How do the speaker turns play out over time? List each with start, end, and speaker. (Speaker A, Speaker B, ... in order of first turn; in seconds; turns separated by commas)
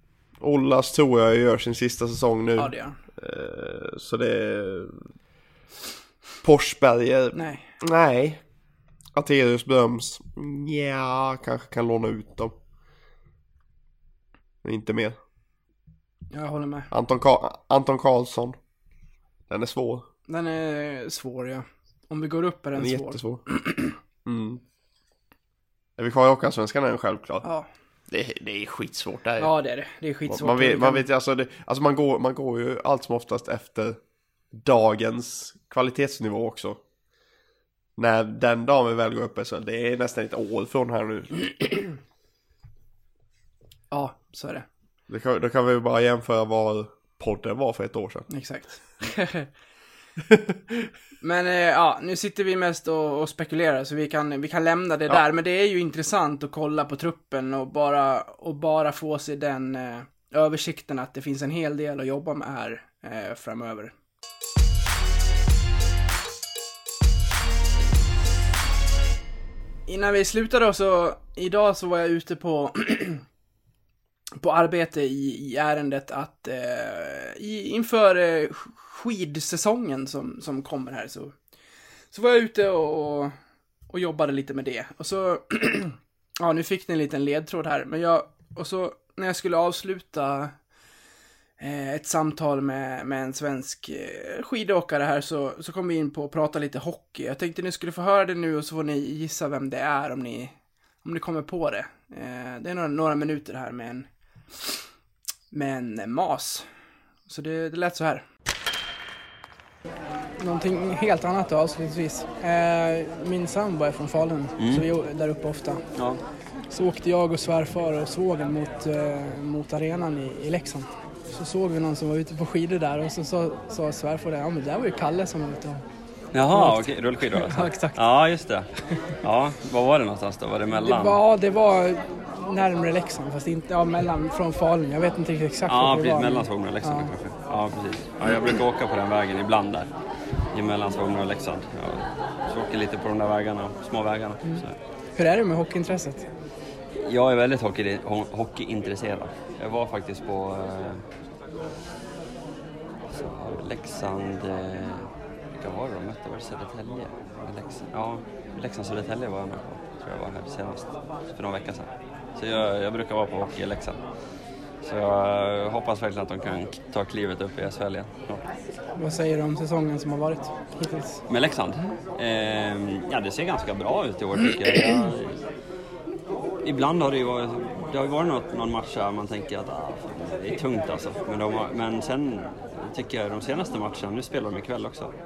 Speaker A: 0.4-5.1, Speaker B: 2.6-3.0, Speaker A: 6.4-8.4, Speaker B: 7.3-7.7, Speaker A: 9.1-12.6, Speaker A: 14.6-15.2, Speaker B: 16.3-16.9, Speaker A: 16.9-18.6, Speaker A: 19.5-20.1, Speaker B: 20.3-23.9, Speaker A: 22.7-23.5, Speaker A: 24.2-24.6, Speaker A: 26.0-27.4, Speaker A: 28.1-29.5, Speaker B: 29.4-31.1, Speaker A: 30.2-34.0, Speaker A: 34.5-36.8, Speaker A: 38.0-41.9, Speaker B: 43.9-44.6, Speaker A: 45.1-48.3, Speaker B: 48.3-49.5, Speaker A: 50.3-50.6, Speaker B: 51.2-63.9, Speaker B: 69.9-73.2, Speaker B: 74.4-81.4, Speaker B: 82.1-83.3, Speaker B: 83.9-90.5, Speaker B: 91.6-104.1, Speaker B: 105.5-106.7, Speaker B: 107.3-108.2, Speaker B: 110.4-115.8, Speaker C: 114.6-114.9, Speaker C: 115.9-116.2, Speaker B: 116.7-125.8, Speaker C: 126.3-128.7, Speaker B: 126.5-128.0, Speaker C: 129.2-131.2, Speaker B: 130.8-137.1, Speaker C: 135.7-139.9, Speaker C: 140.5-144.7, Speaker B: 145.2-146.3, Speaker C: 147.0-151.0, Speaker C: 153.1-164.0, Speaker C: 164.8-168.4, Speaker B: 169.0-171.2, Speaker C: 171.3-175.4, Speaker C: 176.6-185.1